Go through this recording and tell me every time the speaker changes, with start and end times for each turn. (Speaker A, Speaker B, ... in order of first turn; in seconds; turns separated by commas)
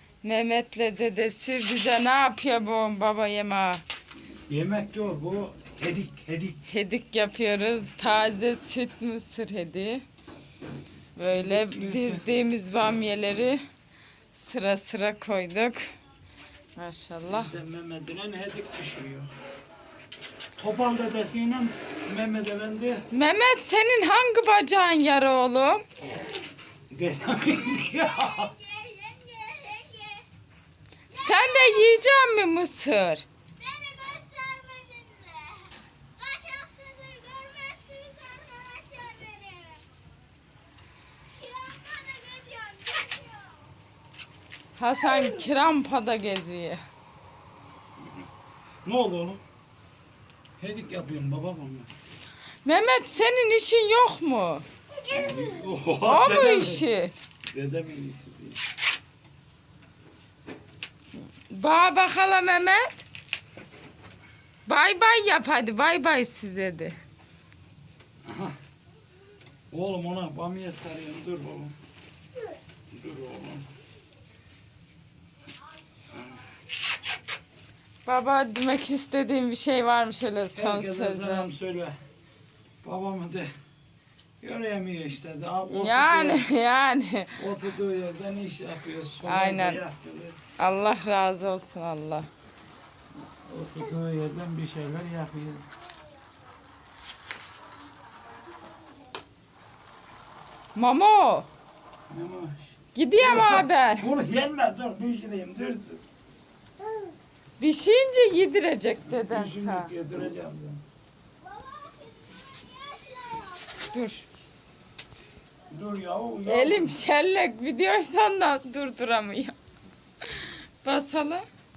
Speaker A: 0.2-3.8, Speaker B: 4.5-6.6, Speaker A: 6.7-10.0, Speaker A: 11.1-13.6, Speaker B: 11.3-12.2, Speaker A: 14.3-15.8, Speaker A: 16.7-17.5, Speaker B: 17.3-19.3, Speaker B: 20.6-23.1, Speaker A: 23.1-25.8, Speaker B: 26.9-28.6, Speaker C: 28.7-30.2, Speaker A: 31.1-33.2, Speaker C: 33.6-39.8, Speaker C: 41.7-43.5, Speaker A: 44.8-46.8, Speaker B: 48.8-49.4, Speaker B: 50.6-51.9, Speaker A: 52.6-54.6, Speaker B: 55.1-56.8, Speaker A: 56.0-57.1, Speaker B: 57.5-58.6, Speaker A: 61.4-63.0, Speaker A: 64.6-67.0, Speaker B: 68.3-68.5, Speaker B: 69.7-71.7, Speaker B: 72.9-73.7, Speaker A: 78.0-81.5, Speaker B: 80.5-81.9, Speaker B: 82.8-83.5, Speaker B: 84.4-86.5, Speaker A: 85.7-87.5, Speaker B: 87.4-90.4, Speaker A: 89.2-89.8, Speaker A: 90.6-92.3, Speaker B: 93.5-95.7, Speaker A: 100.7-101.5, Speaker B: 102.1-106.0, Speaker A: 102.9-104.1, Speaker A: 107.6-109.9, Speaker B: 109.0-110.8, Speaker C: 112.9-113.5, Speaker A: 113.8-114.3, Speaker B: 115.7-117.0, Speaker A: 116.5-119.5, Speaker A: 120.4-121.5